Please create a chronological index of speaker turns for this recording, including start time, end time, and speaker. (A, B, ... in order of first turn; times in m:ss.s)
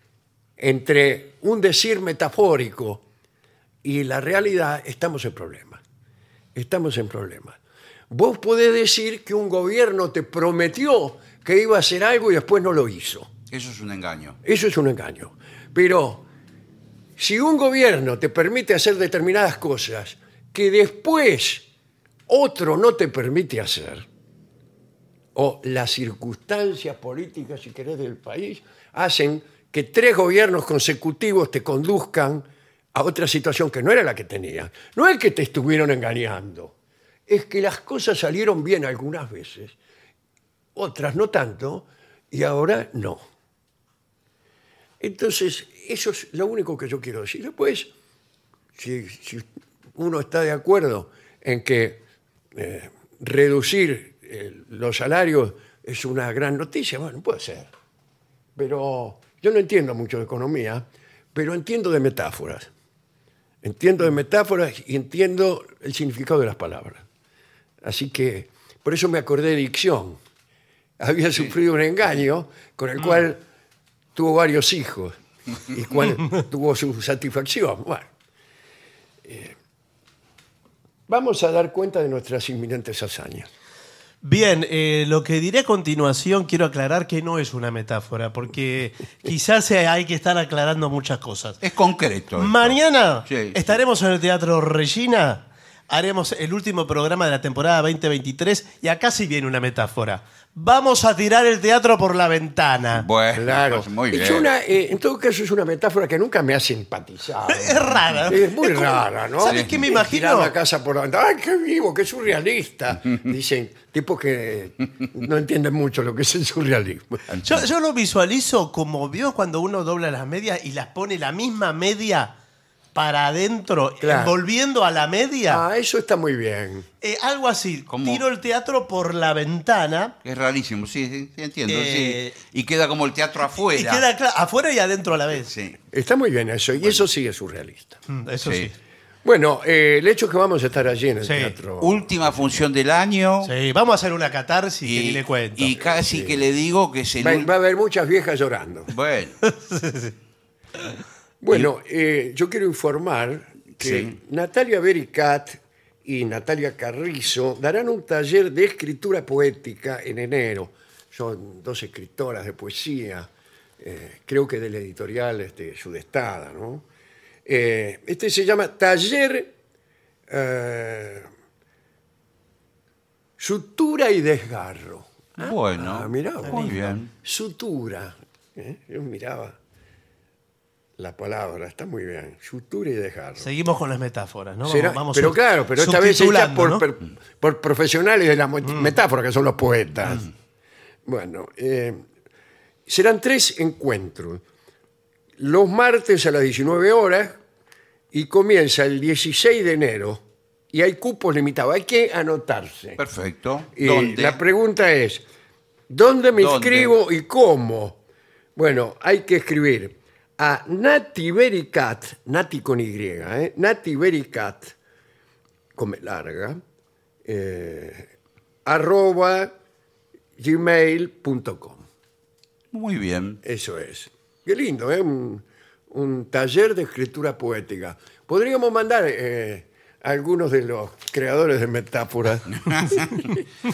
0:00.6-0:03.0 A
0:03.8-0:05.8 A
0:06.6-0:07.6 A
0:08.1-0:13.3 A
0:13.5-0:14.4 B
0:14.4-0:16.3 A
0:17.2-0:21.7 A
0:22.3-0:24.1 A
0:25.4-0:36.7 A
0:37.3-0:39.8 A
0:40.8-0:43.2 A
0:45.0-0:47.9 A
0:48.8-0:52.0 A
0:52.6-0:57.7 A
0:58.6-1:02.7 A
1:03.6-1:07.0 A
1:07.8-1:10.2 A
1:11.0-1:13.4 A
1:14.2-1:18.1 A
1:19.2-1:19.6 A
1:21.1-1:23.5 A
1:24.2-1:31.6 C
1:31.6-1:33.6 B
1:32.4-1:43.0 C
1:43.0-1:44.5 B
1:43.4-1:57.4 A
1:47.5-1:50.5 C
1:49.5-1:49.8 B
1:57.4-2:02.3 C
2:03.0-2:05.6 C
2:04.0-2:04.4 A
2:05.5-2:06.9 A
2:07.0-2:10.1 C
2:07.9-2:08.2 B
2:10.2-2:14.0 B
2:11.7-2:12.4 C
2:13.6-2:15.5 C
2:15.5-2:15.8 B
2:15.9-2:18.0 A
2:16.8-2:17.0 B
2:18.1-2:18.7 C
2:18.4-2:18.7 B
2:19.2-2:22.0 A
2:21.2-2:21.6 C
2:21.8-2:23.5 B
2:23.4-2:25.7 C
2:24.8-2:27.5 B
2:25.8-2:26.4 A
2:27.2-2:28.9 A
2:28.9-2:29.4 B
2:29.4-2:30.1 C
2:31.4-2:46.9 A
2:33.8-2:34.2 B
2:47.5-2:49.5 A
2:50.3-2:51.3 A
2:53.4-2:59.6 A
2:55.4-2:57.1 B
2:56.4-2:57.0 C
3:01.0-3:03.5 A
3:03.4-3:06.8 C
3:04.7-3:10.3 A
3:08.6-3:08.9 C
3:11.1-3:12.0 A
3:12.9-3:14.4 A
3:15.4-3:17.4 A
3:18.1-3:23.0 A
3:23.0-3:24.4 B
3:23.8-3:25.2 A
3:25.9-3:28.0 A
3:26.4-3:26.9 B
3:28.6-3:34.8 A
3:35.8-3:36.6 A
3:37.2-3:38.1 A
3:38.7-3:39.5 A
3:40.4-3:41.8 A
3:42.7-3:43.4 B
3:43.4-3:53.4 A
3:52.7-3:53.0 B